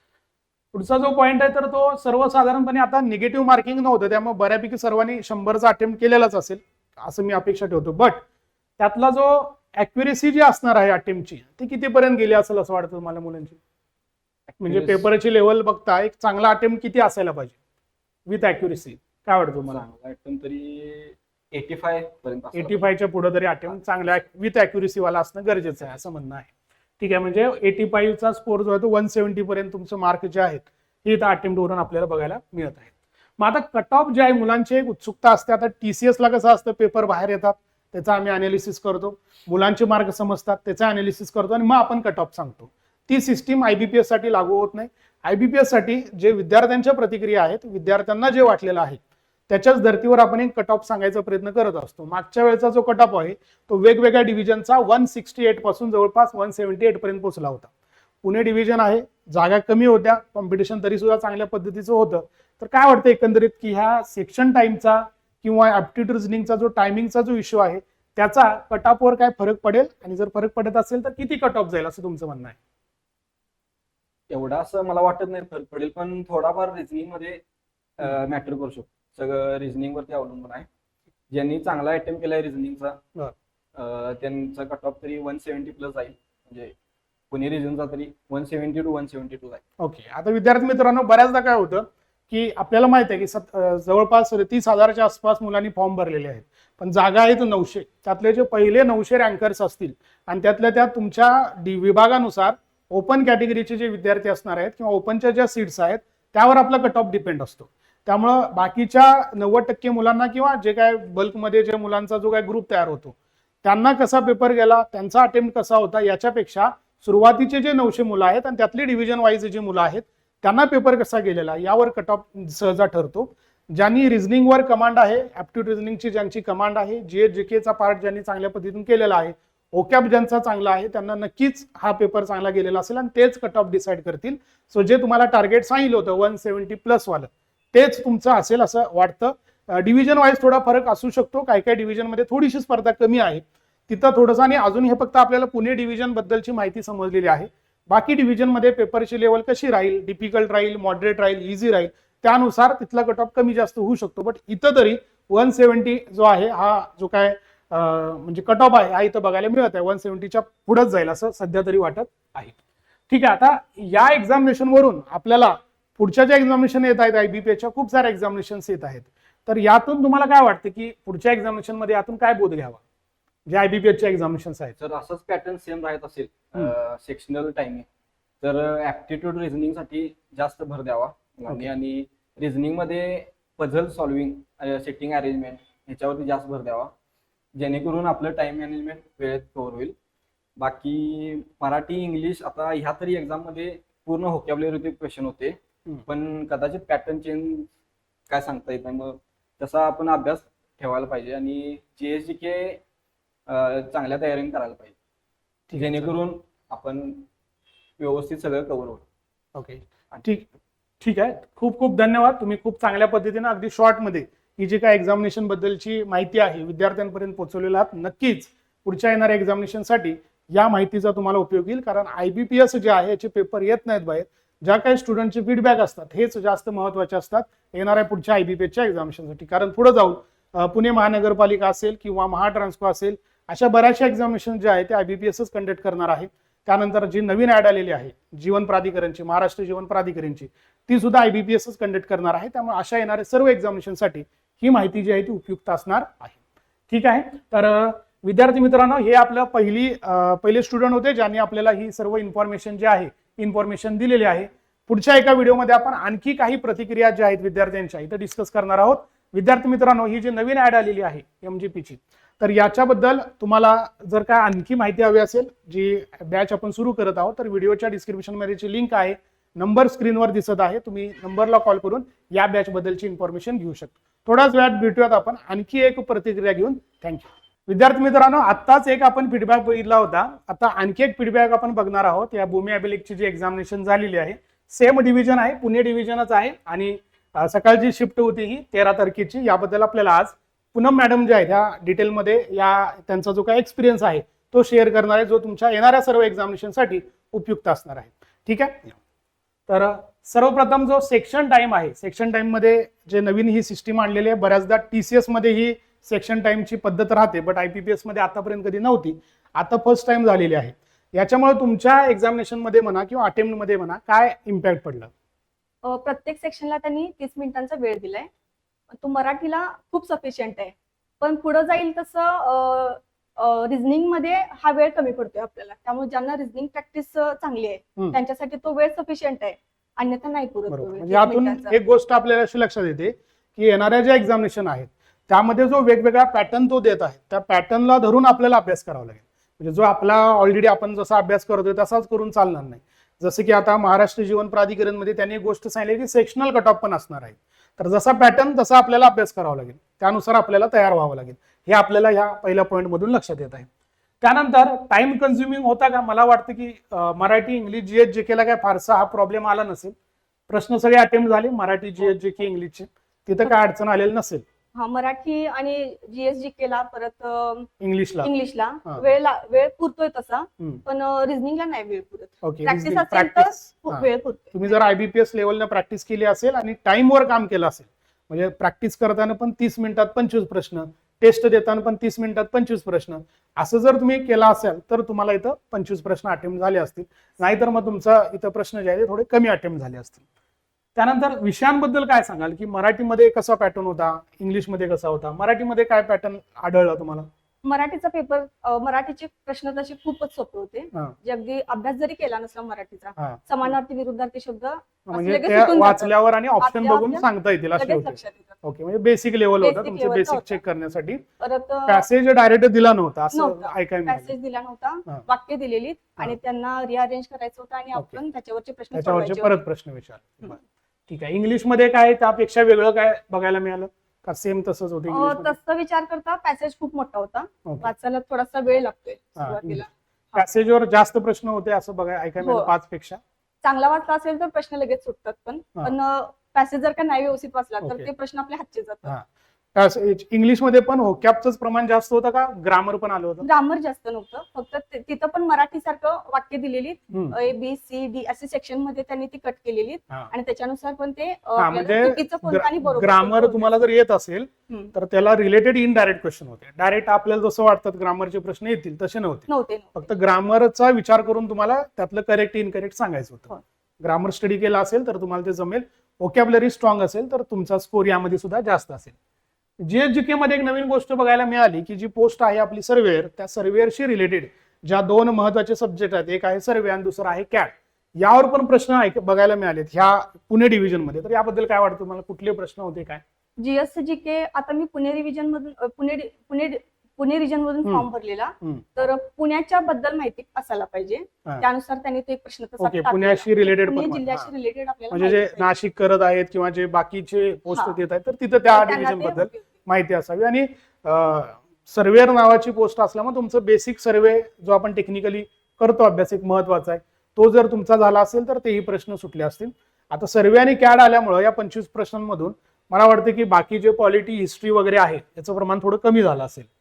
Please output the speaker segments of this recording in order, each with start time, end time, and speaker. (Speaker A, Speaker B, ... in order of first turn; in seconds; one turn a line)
Speaker A: 0.7-8.2
Speaker A: 8.8-13.6
Speaker B: 14.5-15.1
Speaker A: 14.6-17.6
Speaker A: 18.2-19.8
Speaker B: 19.6-22.9
Speaker A: 22.5-57.7
Speaker A: 58.2-72.6
Speaker B: 74.3-77.4
Speaker B: 78.0-80.7
Speaker B: 81.3-83.0
Speaker B: 83.7-86.7
Speaker B: 87.3-89.6
Speaker A: 89.8-162.5
Speaker A: 163.1-172.8
Speaker A: 173.4-174.8
Speaker B: 174.8-177.8
Speaker B: 178.4-186.9
Speaker B: 187.5-189.9
Speaker B: 190.6-197.7
Speaker B: 198.3-202.8
Speaker B: 203.5-204.9
Speaker A: 205.7-206.1
Speaker B: 205.7-207.3
Speaker B: 208.0-209.0
Speaker A: 209.5-210.4
Speaker A: 211.0-246.4
Speaker A: 246.9-299.0
Speaker A: 299.7-315.1
Speaker C: 315.8-318.3
Speaker C: 319.0-331.8
Speaker A: 330.7-353.7
Speaker A: 354.2-359.9
Speaker A: 360.5-364.4
Speaker C: 364.7-367.7
Speaker A: 367.8-368.3
Speaker C: 368.2-374.8
Speaker A: 372.4-390.2
Speaker A: 390.9-397.3
Speaker C: 397.6-408.6
Speaker A: 403.2-403.7
Speaker A: 405.1-411.2
Speaker C: 409.6-410.6
Speaker C: 411.4-412.1
Speaker A: 411.9-414.3
Speaker C: 413.3-419.6
Speaker A: 418.9-425.5
Speaker C: 425.1-430.4
Speaker A: 427.6-427.9
Speaker A: 429.4-429.8
Speaker A: 430.4-433.2
Speaker C: 432.4-432.7
Speaker C: 433.6-439.1
Speaker A: 439.0-443.4
Speaker C: 443.4-453.7
Speaker A: 451.6-469.1
Speaker C: 459.5-460.1
Speaker A: 469.8-483.2
Speaker C: 483.6-495.7
Speaker A: 488.6-488.9
Speaker A: 492.8-494.5
Speaker A: 495.1-516.7
Speaker C: 497.7-498.0
Speaker C: 498.7-499.7